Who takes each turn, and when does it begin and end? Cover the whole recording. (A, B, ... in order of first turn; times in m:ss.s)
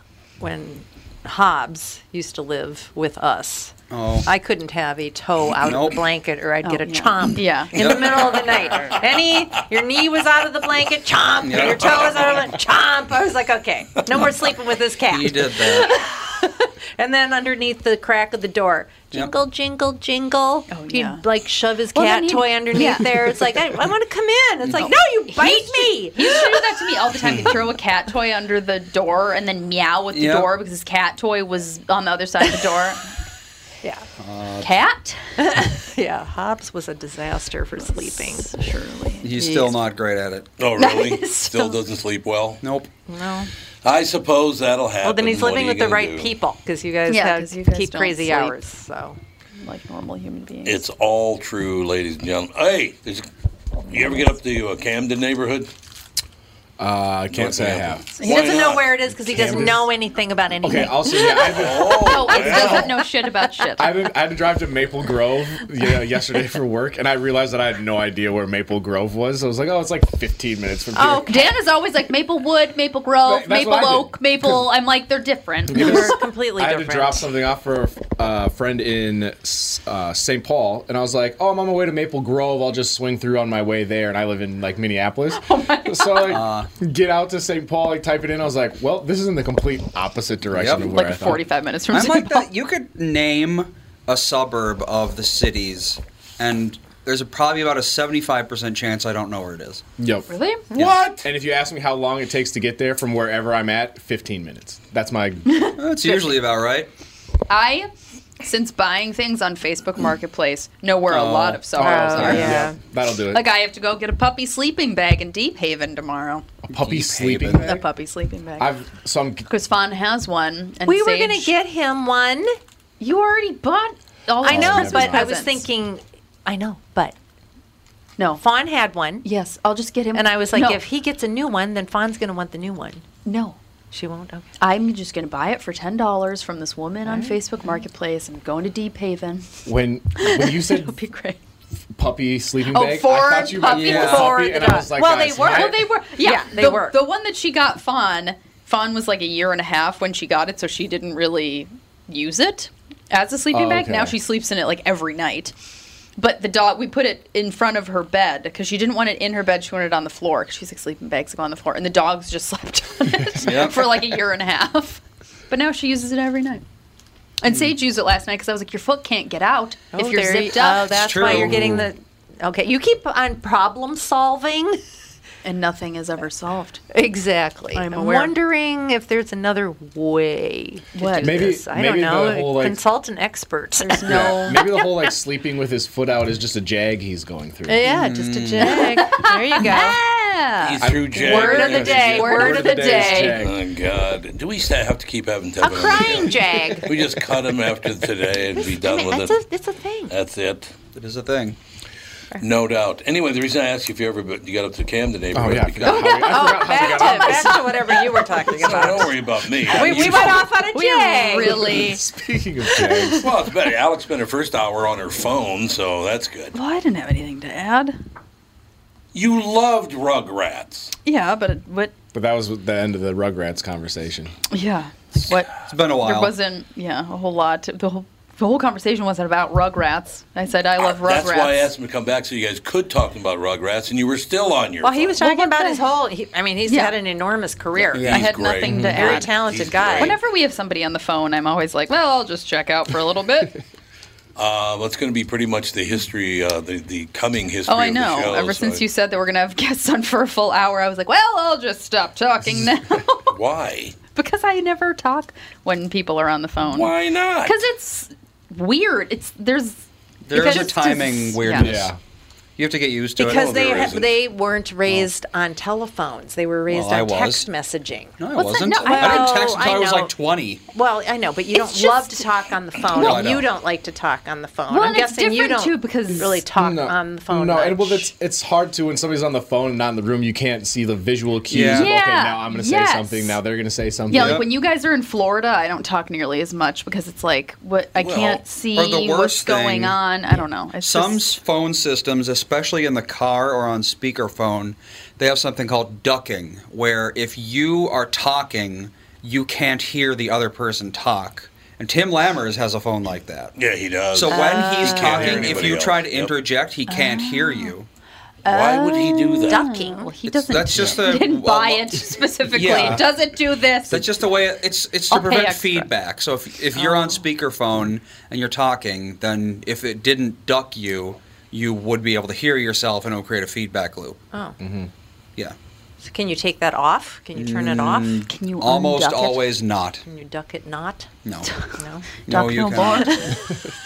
0:00.4-0:26.8 A
0:03.9-0:04.3 B
0:05.6-0:06.0 B
0:06.6-0:07.8 C
0:07.7-0:08.5 B
0:11.4-0:12.3 B
0:15.0-0:15.9 B
0:20.7-0:21.2 C
0:21.9-0:23.4 C
0:24.8-0:33.0 C
0:27.2-0:27.6 D
0:30.1-0:30.5 B
0:34.2-0:34.7 B
0:34.6-0:35.2 C
0:35.4-0:38.5 A
0:37.8-0:39.8 C
0:39.2-0:40.5 B
0:40.6-0:42.6 D
0:40.8-0:41.8 C
0:42.6-0:42.9 B
0:43.0-0:43.5 A
0:43.8-0:46.3 D
0:45.0-0:49.2 A
0:47.1-0:48.6 C
0:49.6-0:50.8 C
0:50.6-0:53.3 D
0:53.9-0:55.7 D
0:56.8-0:58.3 E
0:57.3-0:59.0 D
0:58.2-1:01.4 A
0:59.0-0:59.9 E
1:00.6-1:02.7 E
1:01.1-1:03.9 C
1:01.5-1:02.9 D
1:03.8-1:11.4 E
1:11.0-1:11.4 A
1:11.0-1:16.2 C
1:13.2-1:14.6 E
1:15.7-1:31.4 E
1:15.7-1:17.3 A
1:25.3-1:26.4 C
1:26.3-1:26.7 B
1:30.5-1:30.9 B
1:30.8-1:32.5 C
1:31.9-1:39.8 B
1:40.0-1:40.3 E
1:40.3-1:40.6 C
1:40.7-1:41.2 D
1:41.1-1:45.6 E
1:45.5-1:46.3 C
1:45.8-1:46.9 B
1:47.5-1:47.9 C
1:48.4-1:52.7 C
1:51.1-1:51.6 B
1:51.7-1:53.5 E
1:51.8-1:52.8 A
1:52.2-1:52.6 B
1:53.3-1:56.4 C
1:56.7-1:57.8 E
1:56.7-1:57.7 B
1:57.6-1:58.7 C
1:58.6-1:59.4 E
1:59.5-2:01.5 C
2:00.8-2:02.5 A
2:03.0-2:05.6 C
2:04.4-2:07.1 A
2:04.4-2:05.3 E
2:08.2-2:08.4 C
2:08.4-2:09.2 A
2:09.2-2:10.8 C
2:10.1-2:13.0 A
2:13.2-2:13.6 C
2:13.9-2:14.5 A
2:14.6-2:19.5 C
2:17.0-2:17.4 A
2:19.6-2:20.9 E
2:20.2-2:21.4 C
2:22.0-2:25.9 E
2:22.7-2:24.6 C
2:23.7-2:24.3 B
2:23.8-2:27.0 A
2:25.3-2:35.5 C
2:33.5-2:34.1 E
2:36.2-2:46.6 C
2:43.4-2:43.8 B
2:47.4-2:51.6 C
2:49.9-2:54.8 A
2:50.9-2:51.7 B
2:51.3-2:51.9 E
2:55.4-2:56.8 C
2:56.9-3:05.0 A
2:57.7-2:58.4 C
3:00.9-3:01.5 C
3:01.2-3:02.8 E
3:03.8-3:04.6 C
3:04.0-3:07.9 E
3:07.6-3:10.0 A
3:07.9-3:08.9 B
3:08.6-3:13.4 C
3:10.6-3:12.2 D
3:10.8-3:13.6 E
3:11.2-3:13.3 A
3:13.3-3:19.4 D
3:15.6-3:17.0 A
3:18.5-3:20.1 A
3:20.1-3:20.7 D
3:20.9-3:21.6 B
3:22.4-3:26.2 D
3:25.3-3:27.8 E
3:25.8-3:28.3 C
3:26.2-3:31.8 A
3:28.5-3:28.8 E
3:28.6-3:30.5 D
3:29.7-3:32.0 C
3:29.8-3:30.2 E
3:31.4-3:33.2 E
3:32.8-3:33.2 C
3:33.2-3:36.5 D
3:36.5-3:38.0 C
3:39.1-3:40.9 D
3:41.0-3:41.9 C
3:42.1-3:44.3 E
3:44.5-3:51.7 C
3:45.7-3:46.3 B
3:50.8-3:55.2 D
3:54.8-4:00.2 A
3:55.2-3:55.8 C
3:56.6-3:57.0 C
3:57.9-3:59.3 C
3:57.9-4:00.2 D
3:58.7-3:59.1 E
4:00.0-4:03.5 C
4:04.4-4:08.8 D
4:07.7-4:13.3 C
4:13.3-4:13.9 D
4:14.1-4:21.7 C
4:16.6-4:17.6 D
4:20.2-4:21.9 B
4:21.6-4:22.0 E
4:22.6-4:23.9 B
4:23.2-4:28.2 A
4:23.2-4:24.2 D
4:26.7-4:27.5 B
4:28.2-4:30.6 B
4:28.3-4:29.6 C
4:28.7-4:30.1 A
4:30.7-4:38.1 A
4:31.5-4:32.3 C
4:32.9-4:33.3 C
4:32.9-4:33.5 B
4:34.7-4:36.4 C
4:36.5-4:44.4 E
4:41.5-4:41.9 B
4:41.6-4:43.4 C
4:44.1-4:51.4 C
4:44.1-4:44.4 B
4:48.0-4:48.4 D
4:48.7-4:50.0 B
4:50.8-5:03.5 B
5:03.6-5:06.3 D
5:04.1-5:07.9 B
5:04.3-5:05.4 A
5:04.4-5:05.2 C
5:06.9-5:07.7 C
5:08.4-5:14.2 C
5:08.4-5:09.6 D
5:09.5-5:10.2 A
5:10.4-5:11.9 B
5:12.5-5:13.0 B
5:13.9-5:24.2 B
5:15.1-5:15.9 C
5:16.8-5:17.1 C
5:24.3-5:24.6 A
5:24.6-5:24.9 E
5:26.0-5:28.2 A
5:27.3-5:30.0 B
5:28.2-5:29.6 C
5:30.0-5:32.2 A
5:31.2-5:31.5 B
5:31.5-5:33.4 C
5:32.2-5:33.2 B
5:32.7-5:33.2 A